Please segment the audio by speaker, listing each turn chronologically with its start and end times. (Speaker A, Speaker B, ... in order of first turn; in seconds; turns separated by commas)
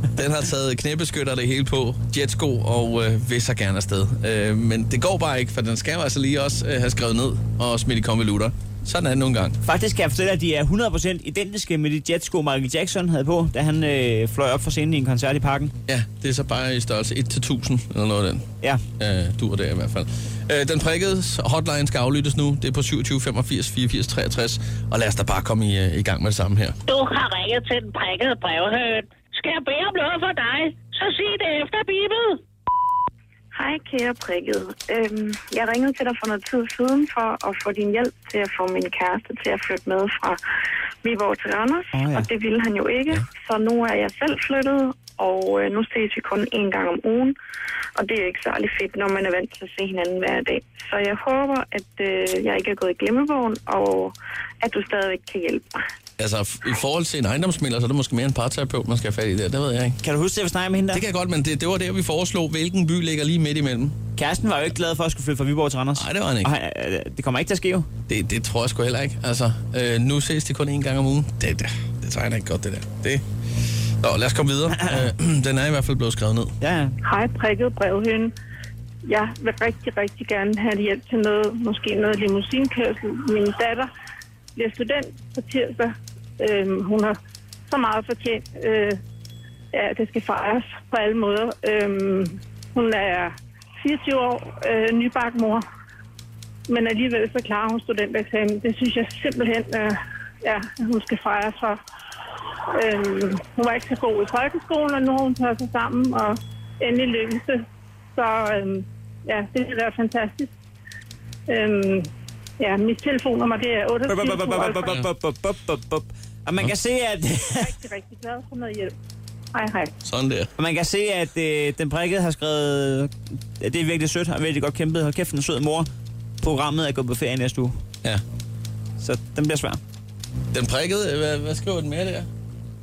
Speaker A: 0.1-9.6, Speaker B: 9.6-15.7, Speaker A: 15.9-26.8, Speaker C: 26.9-32.4, Speaker D: 33.5-40.4, Speaker D: 41.0-47.4, Speaker B: 41.9-42.2, Speaker D: 48.0-55.8, Speaker A: 56.2-60.0, Speaker B: 60.0-61.0, Speaker A: 60.9-64.0, Speaker B: 64.2-67.9, Speaker A: 66.0-66.5, Speaker A: 68.1-73.2, Speaker A: 74.0-76.5, Speaker B: 76.6-77.0, Speaker E: 77.0-78.3, Speaker E: 79.0-83.9, Speaker E: 84.5-87.2, Speaker E: 87.7-89.0, Speaker E: 89.7-95.6, Speaker E: 96.7-101.8, Speaker E: 102.7-107.6, Speaker E: 108.1-110.5, Speaker E: 111.5-114.9, Speaker B: 114.1-117.7, Speaker E: 117.6-118.9, Speaker E: 119.5-119.9, Speaker A: 120.0-120.5, Speaker B: 120.6-125.9, Speaker B: 126.4-127.8, Speaker B: 129.0-129.8, Speaker A: 130.5-132.3